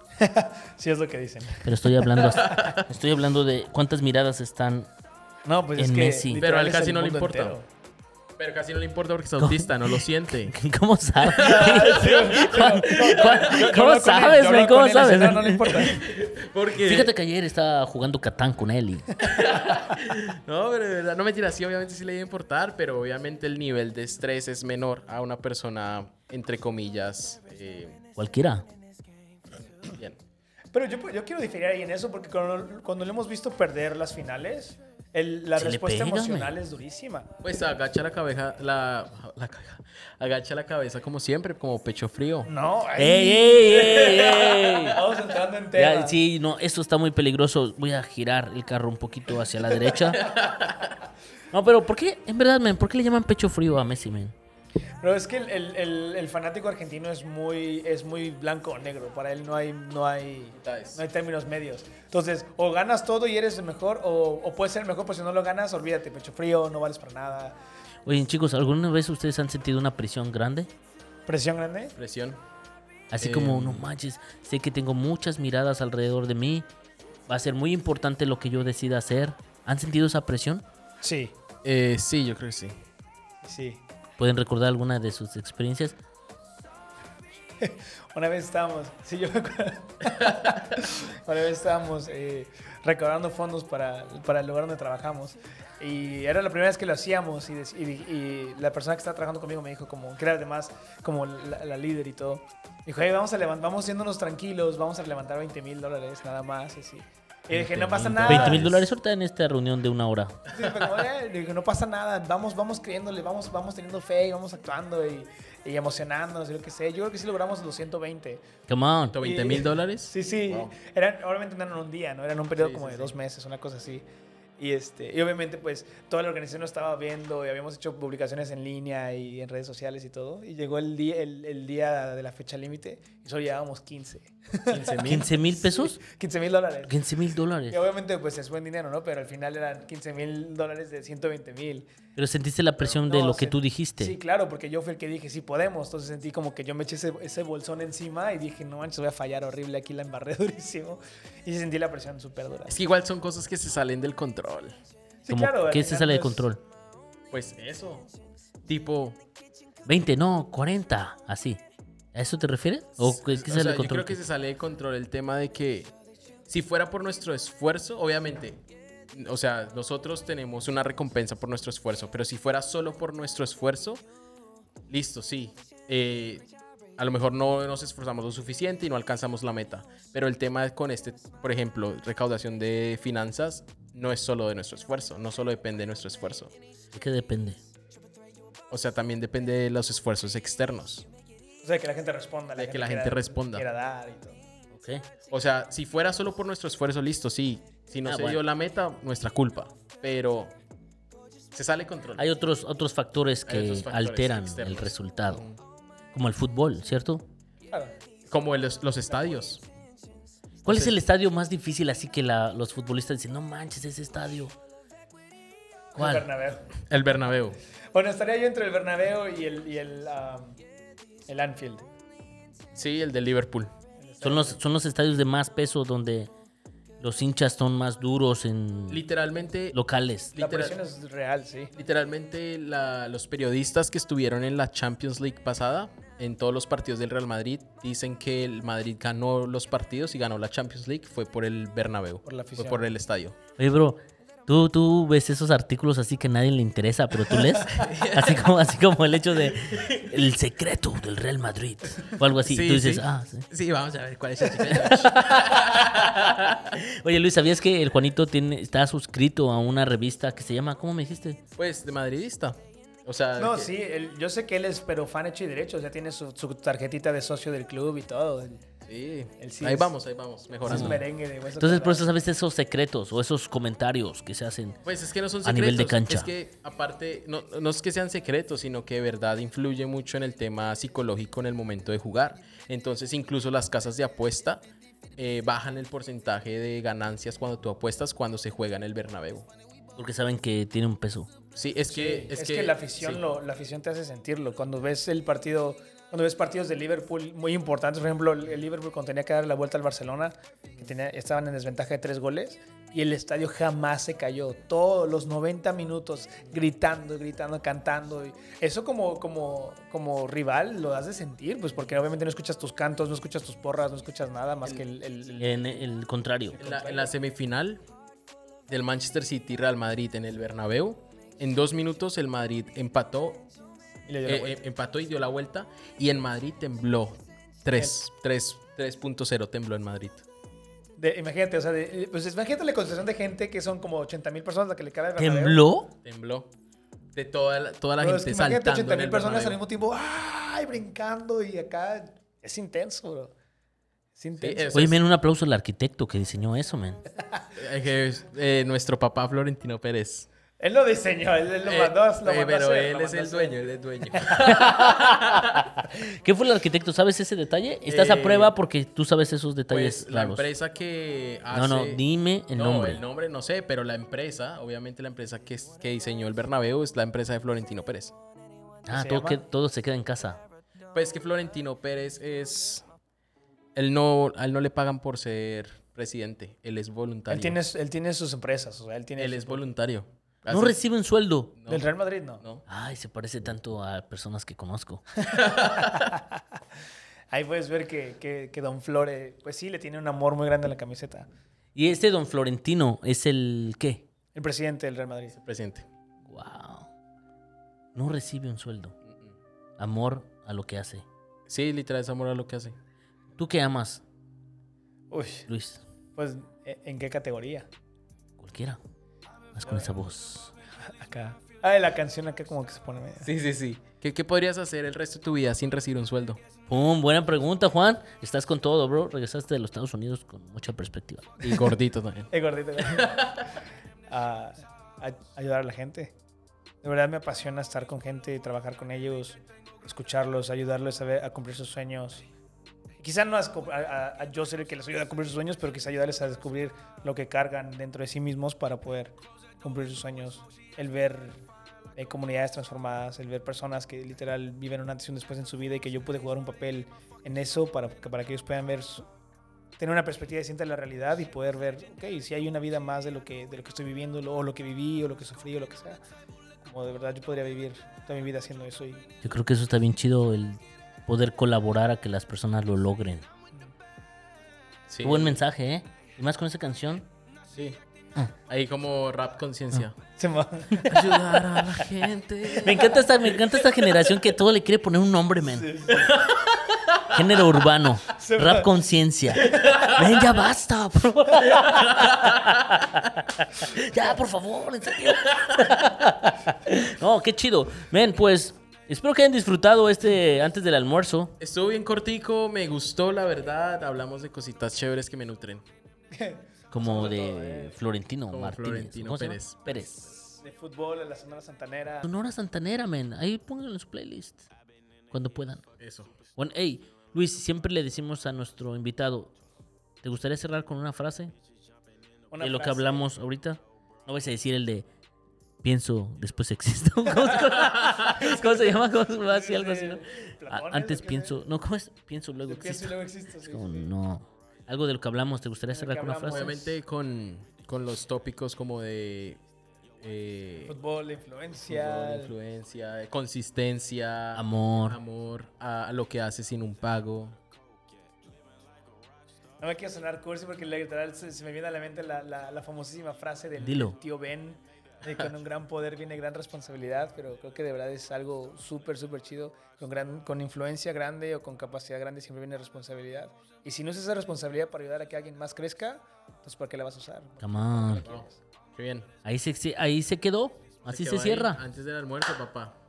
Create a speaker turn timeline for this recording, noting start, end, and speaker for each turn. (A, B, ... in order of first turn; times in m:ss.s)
0:00.2-0:02.6 A
0:01.6-0:04.9 B
0:02.3-0:02.8 C
0:05.4-0:07.7 A
0:05.8-0:06.4 B
0:06.4-0:07.6 C
0:08.4-0:10.6 C
0:09.4-0:16.0 B
0:11.2-0:13.8 C
0:11.3-0:16.0 A
0:15.7-0:17.1 C
0:16.8-0:19.2 B
0:19.2-0:28.0 C
0:28.2-0:28.7 B
0:29.8-0:30.2 C
0:30.7-0:37.3 A
0:35.6-0:36.6 B
0:37.4-0:42.5 C
0:42.5-0:46.2 A
0:43.0-0:45.0 B
0:43.9-0:44.7 C
0:45.8-0:50.3 B
0:49.9-0:51.0 C
0:51.5-0:54.4 B
0:55.0-1:07.6 A
1:00.6-1:01.0 C
1:08.0-1:10.7 B
1:11.3-1:12.0 A
1:12.0-1:12.4 C
1:13.1-1:16.7 B
1:13.2-1:13.8 C
1:17.3-1:20.6 B
1:21.0-1:21.4 A
1:21.6-1:22.8 C
1:23.4-1:23.8 A
1:24.2-1:26.0 B
1:27.6-1:48.8 A
1:30.2-1:30.6 C
1:47.5-1:48.9 C
1:47.6-1:50.4 B
1:50.5-1:58.4 A
1:58.7-1:59.2 B
1:59.1-2:00.7 C
1:59.2-2:04.0 A
2:02.6-2:03.1 C
2:04.6-2:21.9 A
2:14.7-2:15.3 C
2:15.0-2:16.0 B
2:16.9-2:17.8 B
2:22.2-2:24.2 B
2:23.0-2:32.8 A
2:32.7-2:34.8 C
2:35.2-2:36.5 A
2:35.3-2:36.6 B
2:37.3-2:38.1 C
2:38.7-2:39.2 C
2:39.9-2:41.6 B
2:42.1-2:44.2 B
2:43.0-2:45.9 C
2:46.5-2:54.0 C
2:54.9-2:56.5 C
2:57.0-3:06.5 C
3:06.9-3:07.6 B
3:08.7-3:11.1 C
3:11.6-3:14.4 A
3:12.6-3:13.7 C
3:14.7-3:15.0 B
3:15.3-3:20.5 C
3:18.0-3:18.4 B
3:21.5-3:22.2 C
3:22.2-3:25.4 B
3:23.5-3:25.6 C
3:26.1-3:27.3 B
3:28.3-3:29.6 C
3:30.6-3:34.6 B
3:30.7-3:31.0 C
3:35.9-3:36.7 A
3:36.0-3:36.3 B
3:36.9-3:37.6 C
3:37.9-3:40.6 A
3:41.3-3:41.9 A
3:42.8-3:43.7 C
3:44.0-3:44.6 A
3:44.2-3:46.3 B
3:47.0-3:49.0 B
3:48.9-3:49.8 C
3:49.7-3:50.4 B
3:50.3-3:50.7 C
3:50.4-3:51.7 A
3:51.8-4:03.4 C
4:02.2-4:02.9 A
4:03.6-4:13.5 B
4:07.7-4:08.5 C
4:09.6-4:10.1 C
4:12.5-4:16.7 C
4:14.5-4:21.4 B
4:21.6-4:23.7 C
4:23.4-4:28.6 A
4:28.9-4:31.0 C
4:29.4-4:29.9 A
4:30.6-4:32.1 A
4:30.7-4:31.0 B
4:31.6-4:34.8 B
4:34.8-4:44.6 C
4:35.4-4:36.3 B
4:45.2-4:49.5 C
4:50.0-4:51.3 B
4:51.6-4:53.2 C
4:51.9-5:15.8 A
5:15.4-5:16.6 B
5:16.6-5:17.1 A
5:16.6-5:17.8 C
5:18.7-5:23.5 C
5:24.1-5:24.6 A
5:24.3-5:30.2 C
5:31.0-5:35.6 A
5:35.2-5:35.9 B
5:36.0-5:36.5 C
5:37.1-5:39.6 C
5:38.0-5:43.4 A
5:44.2-5:44.9 A
5:44.4-5:45.0 C
5:44.7-5:47.0 B
5:47.6-5:50.3 C
5:50.6-5:53.6 A
5:51.7-5:55.7 C
5:54.1-5:54.4 A
5:54.4-6:00.5 B
5:57.9-5:58.5 C
5:59.7-6:02.0 C
6:01.5-6:03.0 B
6:02.6-6:08.2 C
6:08.9-6:10.4 B
6:08.9-6:09.4 A
6:10.9-6:12.8 C
6:13.8-6:17.6 C
6:17.3-6:19.7 A
6:19.2-6:20.8 C
6:20.5-6:21.5 B
6:21.6-6:21.8 C
6:21.7-6:22.4 A
6:22.7-6:25.1 B
6:25.3-6:26.2 C
6:25.3-6:26.6 A
6:27.3-6:31.3 A
6:31.8-6:34.1 B
6:34.4-6:35.4 A
6:35.4-6:35.9 C
6:36.3-6:36.9 B
6:38.0-6:39.0 B
6:39.0-6:39.3 C
6:39.8-6:41.0 B
6:41.5-6:42.8 C
6:43.4-6:44.0 B
6:45.1-6:45.5 A
6:45.5-6:45.8 B
6:46.2-6:47.7 A
6:48.4-6:48.8 B
6:49.5-6:50.5 B
6:49.6-6:49.9 A
6:50.9-6:53.3 A
6:53.2-6:56.4 C
6:56.7-7:01.7 B
7:01.4-7:03.6 C
7:02.3-7:06.2 A
7:06.8-7:12.3 A
7:13.0-7:21.4 A
7:22.0-7:29.1 A
7:29.8-7:36.0 A
7:36.6-7:39.1 A
7:39.2-7:43.3 B
7:44.9-7:45.4 C
7:45.0-7:47.1 B
7:47.5-7:47.8 C
7:48.5-7:50.0 C
7:50.2-7:51.2 A
7:50.7-7:51.2 B
7:50.9-7:53.3 C
7:52.5-7:55.9 B
7:55.4-7:56.1 A
7:55.9-7:56.9 C
7:57.0-8:11.3 B
7:58.2-7:58.8 A
7:59.5-7:59.9 A
7:59.5-7:59.9 C
8:01.5-8:02.9 C
8:05.3-8:05.7 C
8:11.4-8:15.6 C
8:16.1-8:17.8 A
8:16.7-8:20.4 B
8:18.3-8:19.7 C
8:20.4-8:22.1 A
8:22.0-8:24.5 B
8:25.1-8:25.7 B
8:25.8-8:26.1 C
8:26.4-8:29.3 B
8:30.0-8:31.3 B
8:32.3-8:33.1 A
8:32.4-8:34.9 B
8:35.6-8:46.5 B
8:37.6-8:38.1 C
8:38.1-8:41.5 A
8:42.5-8:43.9 A
8:45.7-8:46.8 A
8:46.3-8:49.4 C
8:50.0-8:50.8 C
8:50.7-8:52.3 A
8:51.7-8:57.4 C
8:54.4-8:55.0 B
8:59.6-9:18.4 A
9:03.6-9:04.0 B
9:17.4-9:18.1 B
9:18.0-9:19.1 C
9:19.2-9:21.6 B
9:20.9-9:22.8 C